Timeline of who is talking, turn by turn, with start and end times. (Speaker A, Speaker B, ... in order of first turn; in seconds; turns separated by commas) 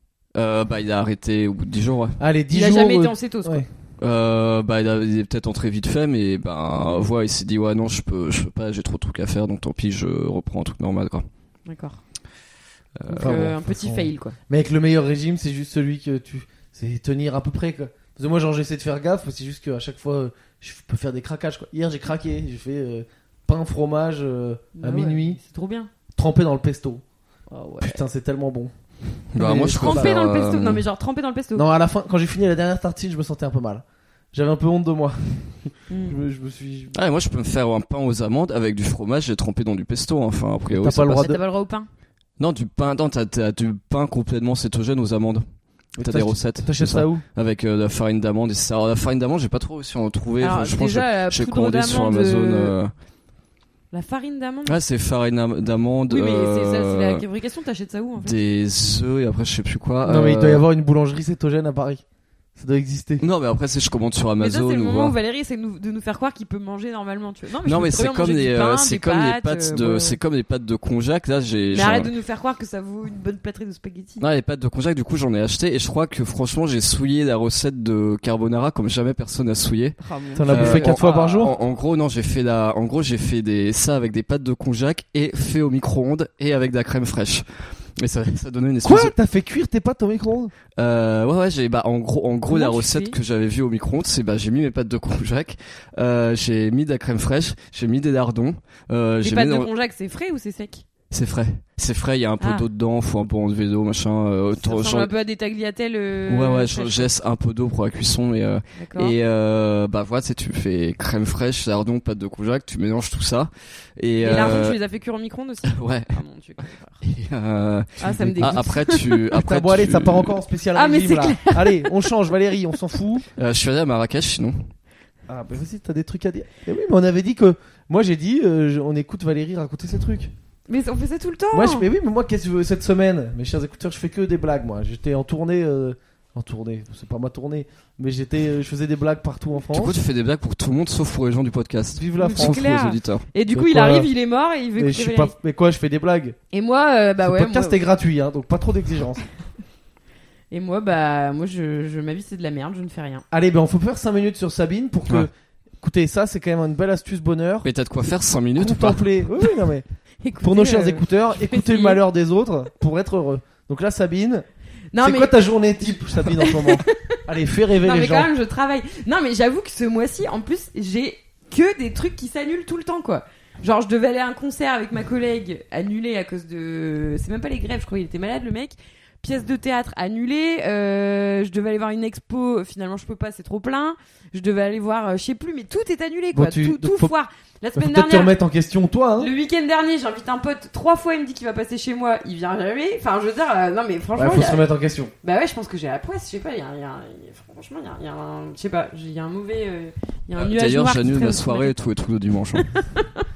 Speaker A: 0.3-2.2, Speaker B: 2.2-3.6, Speaker C: 2.5-3.6, Speaker A: 4.0-11.2, Speaker C: 11.7-12.0, Speaker A: 13.0-13.5, Speaker C: 13.1-14.4, Speaker B: 13.2-25.4, Speaker C: 24.7-25.9, Speaker B: 26.1-27.0, Speaker C: 27.5-28.0, Speaker B: 27.8-28.7, Speaker A: 29.3-30.8, Speaker B: 29.4-30.1, Speaker C: 29.7-31.6, Speaker B: 31.5-37.0, Speaker C: 35.9-36.2, Speaker A: 36.9-41.3, Speaker B: 40.7-41.4, Speaker C: 41.1-41.9, Speaker A: 42.4-45.5, Speaker B: 46.0-47.2, Speaker A: 46.0-52.9, Speaker C: 50.4-52.7, Speaker C: 53.9-54.8, Speaker A: 54.6-57.2, Speaker C: 56.1-58.4, Speaker A: 58.2-60.6, Speaker B: 60.0-62.0, Speaker B: 62.5-63.2, Speaker A: 63.2-65.2, Speaker C: 64.4-70.2, Speaker A: 67.6-72.1, Speaker C: 71.7-74.2, Speaker A: 74.2-87.5, Speaker C: 80.0-81.6, Speaker B: 80.4-81.5, Speaker A: 88.0-89.1, Speaker B: 88.8-90.5, Speaker A: 90.8-99.7, Speaker C: 92.5-93.2, Speaker C: 99.2-100.8, Speaker A: 101.1-105.1, Speaker C: 102.4-102.6, Speaker C: 104.6-107.1, Speaker A: 106.3-114.8, Speaker C: 108.8-109.1, Speaker C: 114.2-117.0, Speaker A: 115.7-116.2, Speaker A: 117.0-120.3, Speaker C: 118.0-119.2, Speaker B: 118.0-118.6, Speaker B: 119.3-123.2, Speaker C: 120.7-122.2, Speaker A: 123.3-124.7, Speaker B: 125.3-130.3, Speaker C: 130.7-131.9, Speaker B: 131.5-140.0, Speaker A: 139.7-143.2, Speaker B: 141.9-142.6, Speaker C: 142.2-145.3, Speaker B: 143.5-144.1, Speaker B: 144.8-146.4, Speaker C: 146.5-147.8, Speaker B: 147.2-149.2, Speaker C: 150.5-153.2, Speaker B: 153.3-157.7, Speaker A: 157.6-159.0, Speaker B: 158.6-159.8, Speaker C: 160.2-162.0, Speaker B: 160.4-164.4, Speaker C: 164.9-167.2, Speaker B: 165.0-168.3, Speaker C: 167.8-188.3, Speaker B: 186.3-187.1, Speaker B: 187.7-189.3, Speaker C: 189.2-194.7, Speaker B: 194.2-195.1, Speaker C: 195.2-201.7, Speaker A: 200.3-202.7, Speaker C: 202.6-203.3